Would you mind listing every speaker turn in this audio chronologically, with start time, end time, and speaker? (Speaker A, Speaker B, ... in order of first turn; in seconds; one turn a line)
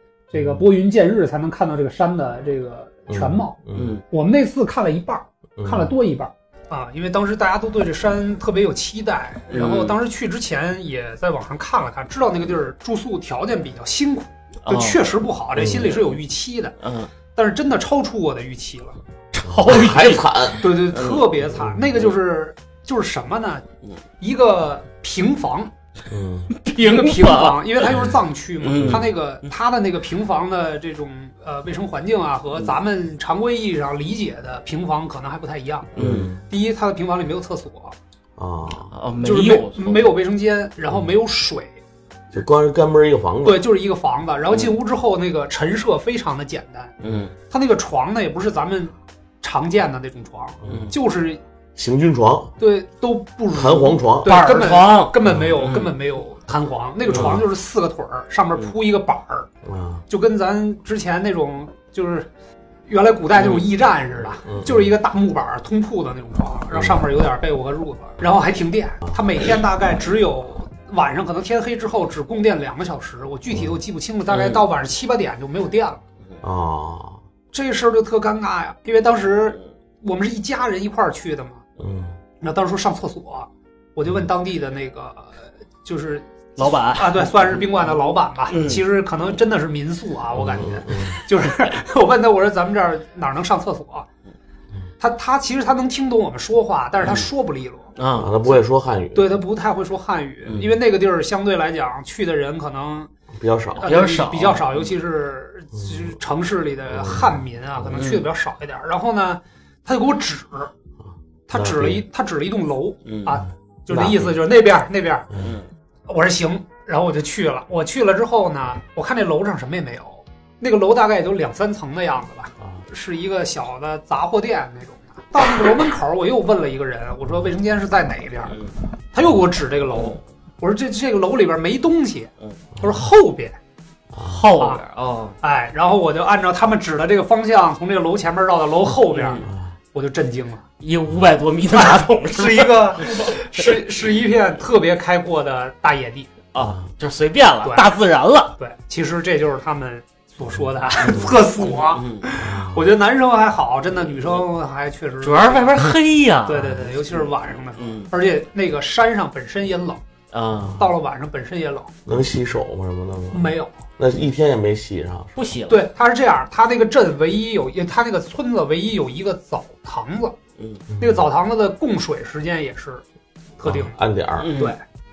Speaker A: 0.3-3.6
Speaker B: 0.3-0.6
Speaker B: 3.1-4.0
Speaker C: 3.7-4.0
Speaker A: 4.1-16.7
Speaker B: 5.6-5.9
Speaker C: 9.5-9.9
Speaker C: 14.7-15.0
Speaker B: 15.6-15.9
Speaker C: 15.8-16.2
Speaker C: 16.8-17.1
Speaker A: 17.3-19.0
Speaker C: 19.3-21.3
Speaker B: 19.4-20.6
Speaker A: 20.6-23.6
Speaker A: 24.2-25.7
Speaker B: 26.1-26.5
Speaker C: 26.6-28.1
Speaker A: 26.7-35.9
Speaker C: 28.6-29.1
Speaker B: 28.7-29.1
Speaker B: 36.0-36.4
Speaker C: 36.0-36.3
Speaker A: 36.5-38.0
Speaker B: 38.4-38.9
Speaker C: 38.9-40.1
Speaker A: 39.2-41.8
Speaker B: 42.3-43.6
Speaker A: 43.4-46.9
Speaker C: 47.0-47.3
Speaker A: 47.5-51.4
Speaker B: 50.6-50.9
Speaker B: 51.8-52.5
Speaker A: 52.6-59.5
Speaker B: 53.5-54.3
Speaker C: 54.2-55.9
Speaker C: 57.1-57.4
Speaker B: 59.6-60.0
Speaker A: 60.1-62.3
Speaker A: 62.9-76.0
Speaker C: 63.4-63.7
Speaker B: 64.4-64.9
Speaker B: 66.7-67.0
Speaker C: 74.3-74.6
Speaker B: 76.4-77.2
Speaker A: 77.5-81.6
Speaker B: 81.8-82.1
Speaker A: 82.4-94.1
Speaker C: 86.6-87.4
Speaker C: 88.5-88.8
Speaker B: 90.3-91.2
Speaker A: 95.0-97.9
Speaker C: 98.0-98.3
Speaker B: 98.1-99.3
Speaker A: 99.1-103.1
Speaker B: 103.3-103.9
Speaker C: 103.8-104.9
Speaker A: 103.8-110.7
Speaker B: 107.0-107.3
Speaker C: 107.9-108.2
Speaker A: 111.5-115.3
Speaker B: 111.5-112.0
Speaker C: 113.0-113.4
Speaker B: 113.9-114.3
Speaker C: 115.4-115.7
Speaker A: 116.1-133.6
Speaker B: 134.1-134.4
Speaker C: 134.2-135.4
Speaker A: 135.4-140.6
Speaker C: 139.1-139.5
Speaker C: 140.8-143.3
Speaker A: 141.7-146.3
Speaker C: 146.5-148.5
Speaker A: 148.6-155.9
Speaker C: 151.0-152.3
Speaker B: 152.4-152.8
Speaker C: 155.2-158.1
Speaker A: 156.4-160.0
Speaker C: 160.3-160.8
Speaker A: 160.8-161.9
Speaker B: 162.1-165.3
Speaker A: 163.3-163.7
Speaker C: 165.3-165.9
Speaker A: 165.7-170.3
Speaker C: 170.6-170.8
Speaker B: 170.9-171.2
Speaker A: 171.0-173.0
Speaker A: 173.6-174.0
Speaker B: 173.6-174.5
Speaker C: 174.4-174.7
Speaker A: 174.5-174.8